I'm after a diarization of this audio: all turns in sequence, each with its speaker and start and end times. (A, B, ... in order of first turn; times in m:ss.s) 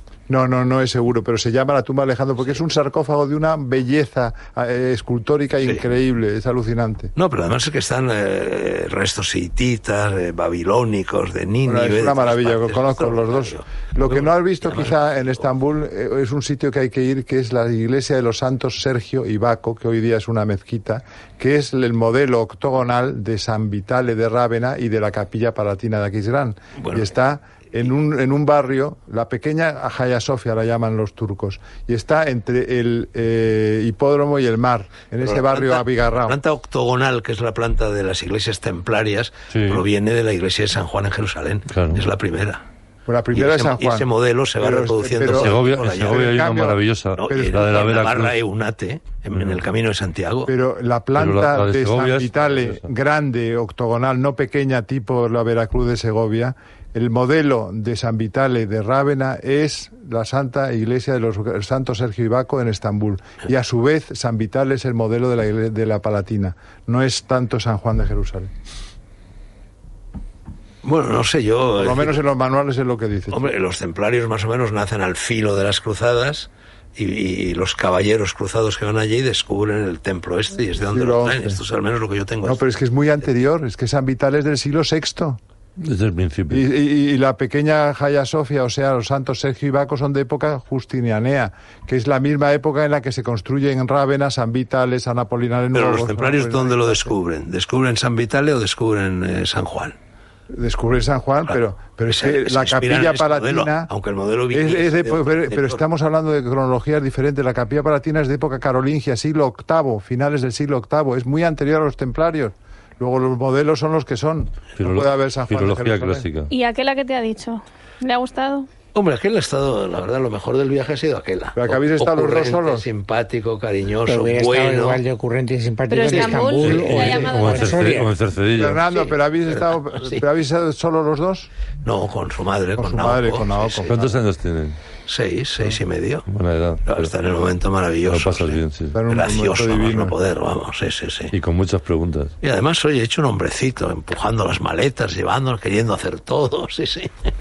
0:00.3-0:07.1 A
0:07.2-0:15.0 B
0:11.6-0:36.4 A
0:26.8-0:27.0 B
0:35.2-0:42.6 B
0:39.5-0:39.8 C
0:41.7-0:42.0 C
0:43.0-0:47.6 A
0:43.3-0:46.4 B
0:45.3-0:48.3 C
0:47.2-0:50.5 B
0:50.5-1:08.5 A
0:51.2-0:52.8 C
1:10.8-1:12.2 B
1:11.7-1:13.5 A
1:13.3-1:22.6 B
1:20.8-1:21.6 A
1:22.4-1:25.4 A
1:25.8-1:26.6 C
1:26.5-1:37.1 A
1:35.7-1:40.0 B
1:40.5-1:43.9 A
1:42.1-1:45.8 B
1:44.5-1:56.3 A
1:54.8-1:56.5 C
1:56.5-1:58.7 D
1:58.9-2:05.0 B
2:01.6-2:02.9 A
2:04.0-2:08.1 E
2:05.9-2:08.0 D
2:06.2-2:07.3 B
2:06.6-2:08.8 C
2:08.5-2:11.5 A
2:08.9-2:10.2 B
2:11.8-2:14.0 B
2:12.8-2:14.1 A
2:13.9-2:14.8 C
2:15.1-2:16.3 B
2:16.3-2:17.1 C
2:16.8-2:21.3 B
2:18.1-2:19.0 C
2:18.9-2:20.1 A
2:21.3-2:22.3 C
2:22.4-2:27.3 B